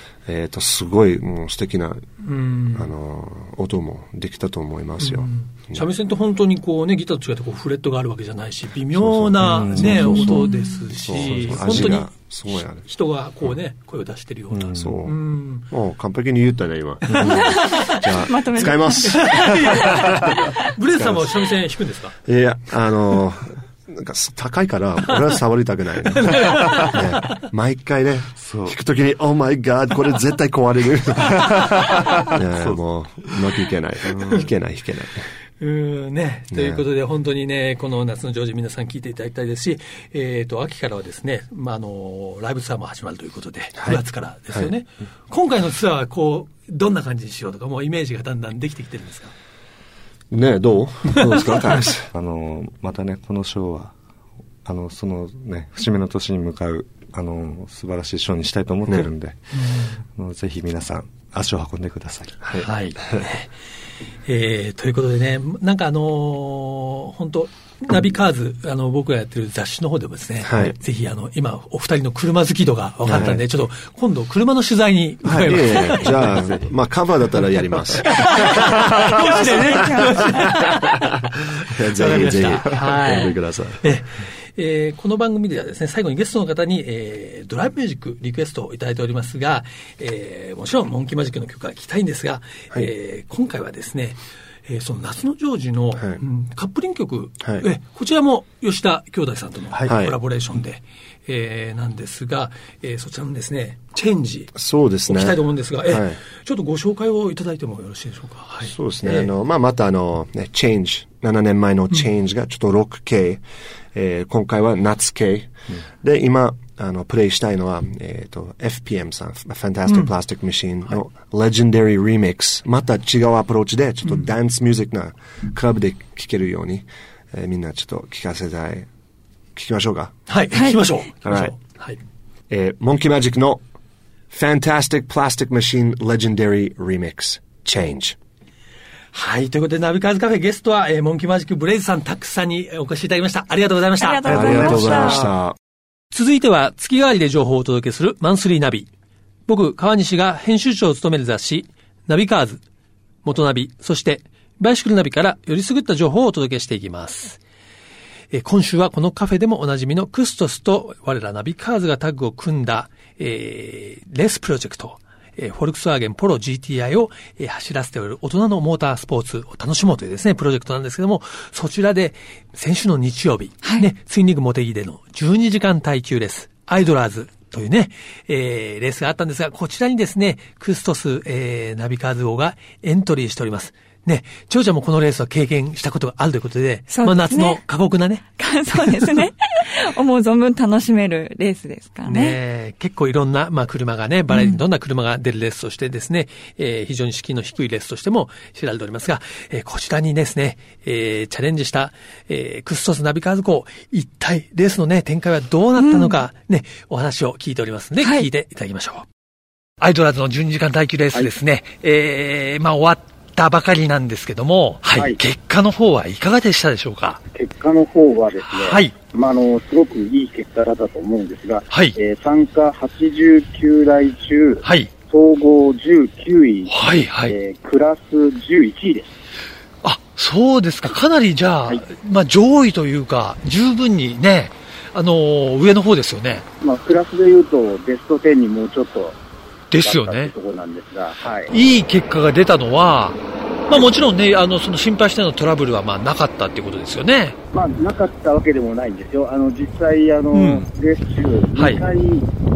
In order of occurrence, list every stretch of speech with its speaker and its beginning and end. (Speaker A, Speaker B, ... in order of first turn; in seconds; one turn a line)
Speaker A: 0.2-2.0
Speaker B: 2.2-2.9
Speaker A: 2.7-5.8
Speaker B: 5.0-15.7
Speaker A: 8.9-10.5
Speaker C: 9.5-10.5
Speaker D: 10.4-10.8
Speaker A: 11.0-12.9
Speaker C: 11.2-12.0
Speaker C: 14.5-14.9
Speaker A: 14.8-20.4
Speaker B: 17.1-18.1
Speaker C: 17.2-17.4
Speaker D: 17.2-19.2
Speaker B: 19.0-22.1
Speaker A: 20.9-21.4
Speaker A: 22.2-35.2
Speaker B: 26.2-27.0
Speaker C: 28.4-28.8
Speaker B: 35.6-49.3
Speaker A: 36.5-36.8
Speaker A: 43.8-44.7
Speaker A: 50.3-52.1
Speaker C: 52.1-53.9
Speaker C: 54.6-62.5
Speaker B: 62.5-63.5
Speaker B: 64.2-76.6
Speaker A: 70.4-70.8
Speaker A: 73.0-73.4
Speaker C: 73.1-73.4
Speaker A: 75.4-78.2
Speaker B: 78.0-104.5
Speaker A: 78.8-80.1
Speaker D: 79.2-80.5
Speaker A: 81.7-83.8
Speaker C: 99.7-100.0
Speaker A: 99.9-100.2
Speaker A: 104.5-106.2
Speaker B: 105.1-109.3
Speaker A: 108.6-128.9
Speaker A: 129.5-130.1
Speaker B: 130.3-132.0
Speaker D: 130.5-130.9
Speaker A: 131.2-131.5
Speaker A: 132.5-133.6
Speaker A: 134.3-138.2
Speaker B: 139.1-144.9
Speaker D: 144.0-145.3
Speaker A: 144.2-145.6
Speaker C: 144.3-145.3
Speaker B: 146.1-148.9
Speaker B: 149.5-152.6
Speaker B: 153.2-157.4
Speaker B: 158.3-189.2
Speaker D: 186.9-187.6
Speaker D: 188.4-192.4
Speaker B: 192.1-209.1
Speaker D: 194.3-194.6
Speaker D: 205.8-206.2
Speaker D: 208.0-208.3
Speaker B: 209.8-217.2
Speaker E: 214.9-215.2
Speaker E: 217.3-229.1
Speaker B: 218.4-218.9
Speaker B: 221.7-222.0
Speaker B: 224.6-224.9
Speaker B: 226.7-227.4
Speaker B: 229.8-236.4
Speaker E: 236.6-239.2
Speaker B: 239.7-240.3
Speaker E: 239.8-241.5
Speaker B: 241.5-247.4
Speaker E: 247.5-252.3
Speaker B: 250.3-250.7
Speaker B: 251.6-251.8